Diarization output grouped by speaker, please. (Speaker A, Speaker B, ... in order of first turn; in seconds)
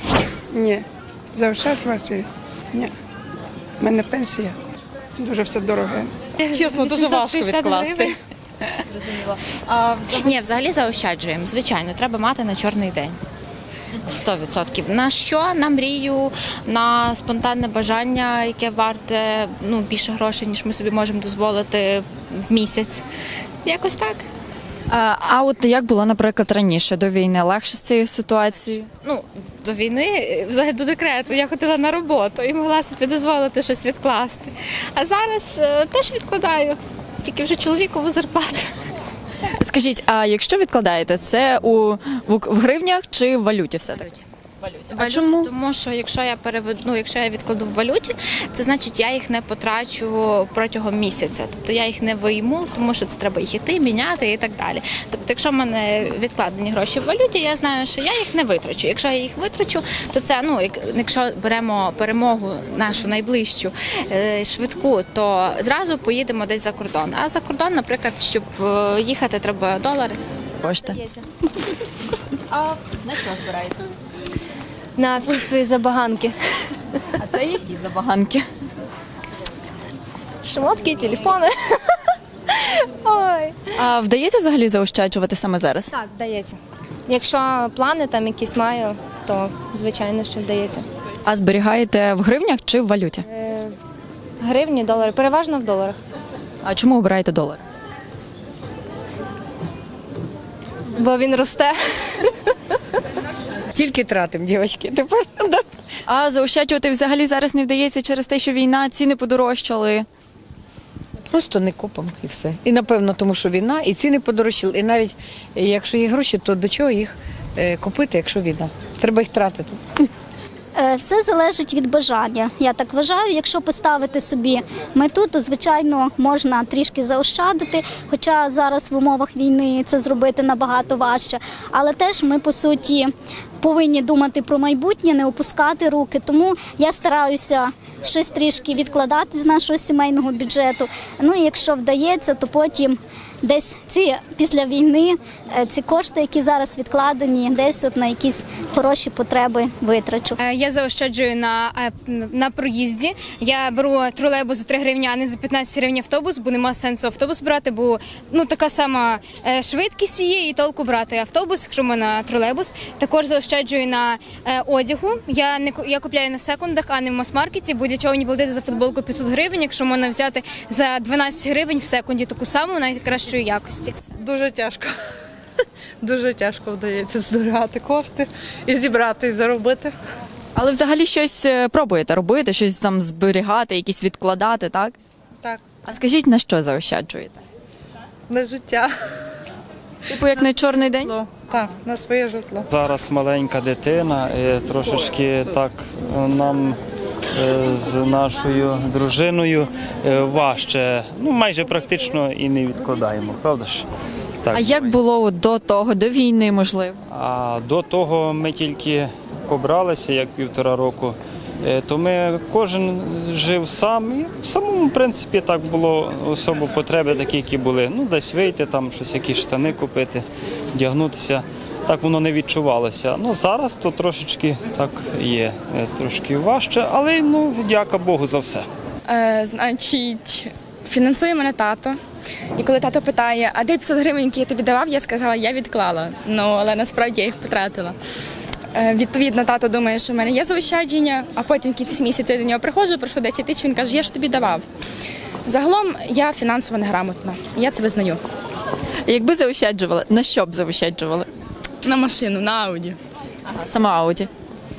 Speaker A: 0.5-0.8, 1.4-2.9, 3.8-4.5, 5.2-6.1
Speaker B: 6.5-8.2, 174.2-174.9, 176.0-179.9, 188.3-188.9, 190.2-192.7
Speaker C: 6.5-8.0, 10.0-13.2, 14.1-23.0, 23.6-24.2, 29.0-38.7, 44.9-70.2
Speaker D: 24.9-28.9, 39.5-44.1, 44.9-45.5, 70.6-71.0, 72.7-73.8, 77.2-78.4, 83.7-85.9, 91.2-93.2, 96.6-97.6, 106.1-110.0, 180.6-184.9, 185.8-187.4, 190.1-191.2, 204.5-207.0, 249.1-251.3, 253.5-254.3
Speaker E: 71.0-71.2, 75.0-76.6, 80.4-82.0, 83.0-83.6, 85.9-90.9, 93.3-93.8, 94.4-96.0, 100.9-102.3
Speaker F: 103.7-105.6, 111.3-119.8
Speaker G: 120.8-133.1, 133.6-150.4
Speaker H: 150.4-174.0
Speaker I: 192.7-196.8, 197.3-203.8, 204.4-205.0, 207.1-228.7
Speaker J: 229.1-232.0, 232.6-237.9, 238.7-244.7, 245.4-248.2, 251.8-252.9